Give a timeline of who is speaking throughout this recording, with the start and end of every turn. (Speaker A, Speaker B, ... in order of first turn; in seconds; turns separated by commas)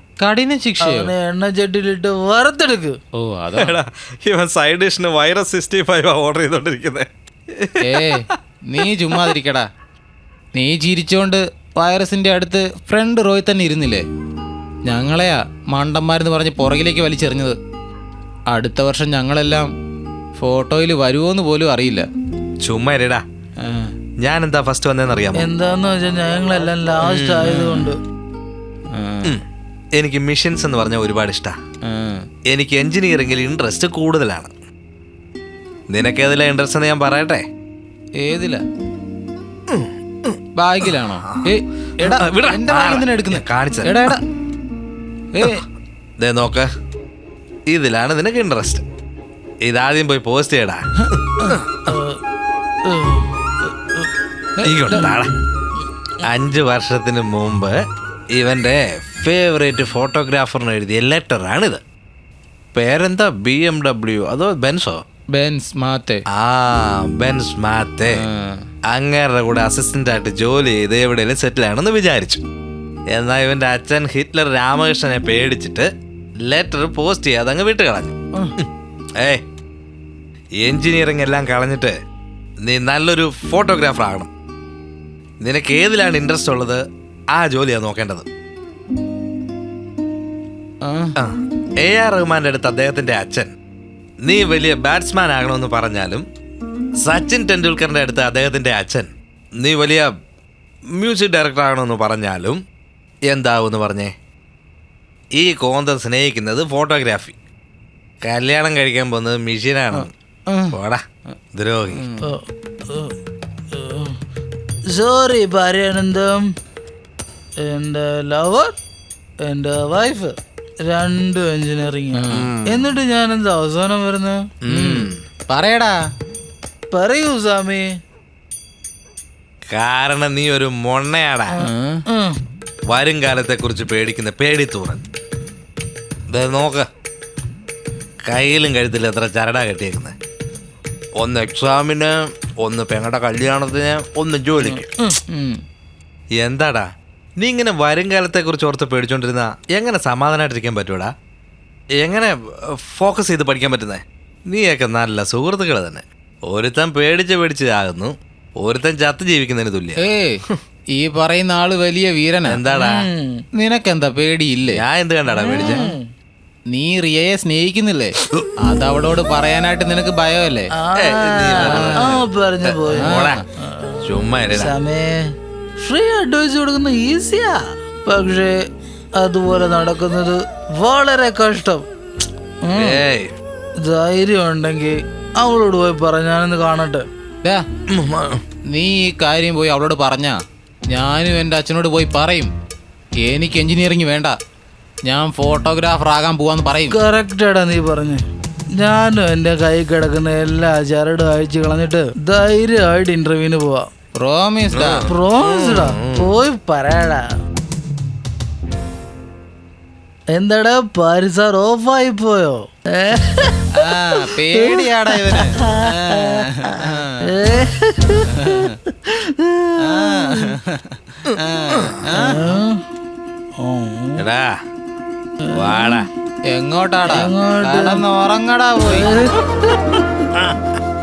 Speaker A: 0.2-1.1, Speaker B: 0.8-3.0, Speaker A: 3.1-3.8, Speaker C: 3.6-8.2, Speaker A: 7.8-9.7, Speaker A: 10.5-14.1, Speaker A: 14.8-17.6, Speaker A: 18.5-19.7, Speaker A: 20.4-22.1, Speaker C: 22.6-23.2, Speaker A: 23.6-23.9, Speaker C: 24.2-25.5, Speaker B: 25.3-28.0, Speaker C: 27.0-27.5, Speaker A: 27.4-27.9, Speaker A: 28.9-29.4, Speaker C: 30.0-31.6, Speaker A: 31.9-32.3, Speaker C: 32.5-34.5, Speaker C: 35.9-37.5, Speaker A: 38.2-38.6, Speaker C: 39.7-40.3, Speaker A: 40.6-44.2, Speaker C: 41.3-44.2, Speaker A: 45.3-45.6, Speaker C: 46.2-46.7, Speaker C: 47.7-48.8, Speaker C: 49.6-51.6, Speaker B: 51.9-52.2, Speaker B: 52.8-54.1, Speaker A: 54.6-54.9, Speaker C: 54.6-55.3, Speaker C: 56.2-57.8, Speaker C: 58.3-61.8, Speaker C: 62.7-65.0, Speaker A: 65.3-66.2, Speaker C: 66.3-68.2, Speaker A: 68.1-68.7, Speaker C: 68.9-72.4, Speaker C: 73.1-75.9, Speaker C: 76.5-78.7, Speaker C: 80.6-81.9, Speaker C: 82.6-84.3, Speaker C: 85.4-86.8, Speaker C: 87.3-88.2, Speaker A: 90.8-91.1, Speaker C: 91.2-93.5, Speaker C: 94.2-96.2, Speaker C: 97.0-99.1, Speaker C: 99.6-100.1, Speaker C: 101.0-102.6, Speaker C: 103.3-104.1, Speaker C: 105.4-107.3, Speaker C: 108.2-110.1, Speaker A: 109.9-110.8, Speaker C: 110.7-111.0, Speaker C: 111.5-112.0, Speaker A: 111.9-112.2, Speaker B: 112.2-113.1, Speaker B: 113.7-114.1, Speaker B: 114.9-116.5, Speaker B: 117.6-118.7, Speaker B: 119.4-124.4, Speaker A: 122.1-122.5, Speaker C: 122.3-122.8, Speaker C: 124.6-125.1, Speaker A: 124.7-126.0, Speaker B: 126.9-127.9, Speaker C: 129.7-131.5, Speaker B: 131.6-132.4, Speaker A: 131.6-132.0, Speaker C: 132.9-135.0, Speaker C: 136.3-136.8, Speaker C: 138.2-140.1, Speaker C: 141.2-144.9, Speaker B: 144.6-145.2, Speaker A: 145.3-145.6, Speaker C: 146.4-146.8, Speaker C: 147.4-151.1, Speaker C: 152.0-152.3, Speaker C: 152.9-160.0, Speaker A: 160.0-162.6, Speaker C: 162.4-163.0, Speaker B: 162.7-163.4, Speaker A: 163.5-164.8, Speaker C: 164.7-165.9, Speaker B: 165.3-166.1, Speaker A: 166.7-170.7, Speaker B: 170.8-174.0, Speaker C: 170.9-173.4, Speaker A: 171.6-171.9, Speaker A: 173.0-173.4, Speaker C: 174.0-174.7, Speaker B: 174.5-178.6, Speaker B: 179.2-181.8, Speaker B: 182.6-183.0, Speaker C: 182.7-183.3, Speaker B: 183.8-187.0, Speaker C: 187.9-188.4, Speaker A: 188.7-192.5, Speaker A: 193.2-194.4, Speaker A: 195.1-197.0, Speaker B: 196.9-198.2, Speaker B: 198.7-203.9, Speaker A: 204.1-205.0, Speaker C: 204.7-206.2, Speaker B: 205.1-207.3, Speaker B: 210.3-220.5, Speaker A: 213.7-217.2, Speaker A: 218.4-218.7, Speaker A: 219.8-222.4, Speaker B: 222.1-222.8, Speaker B: 223.6-224.2, Speaker C: 224.2-224.6, Speaker B: 225.4-225.9, Speaker C: 225.5-226.1, Speaker A: 226.5-229.2, Speaker B: 227.1-228.0, Speaker B: 228.8-230.0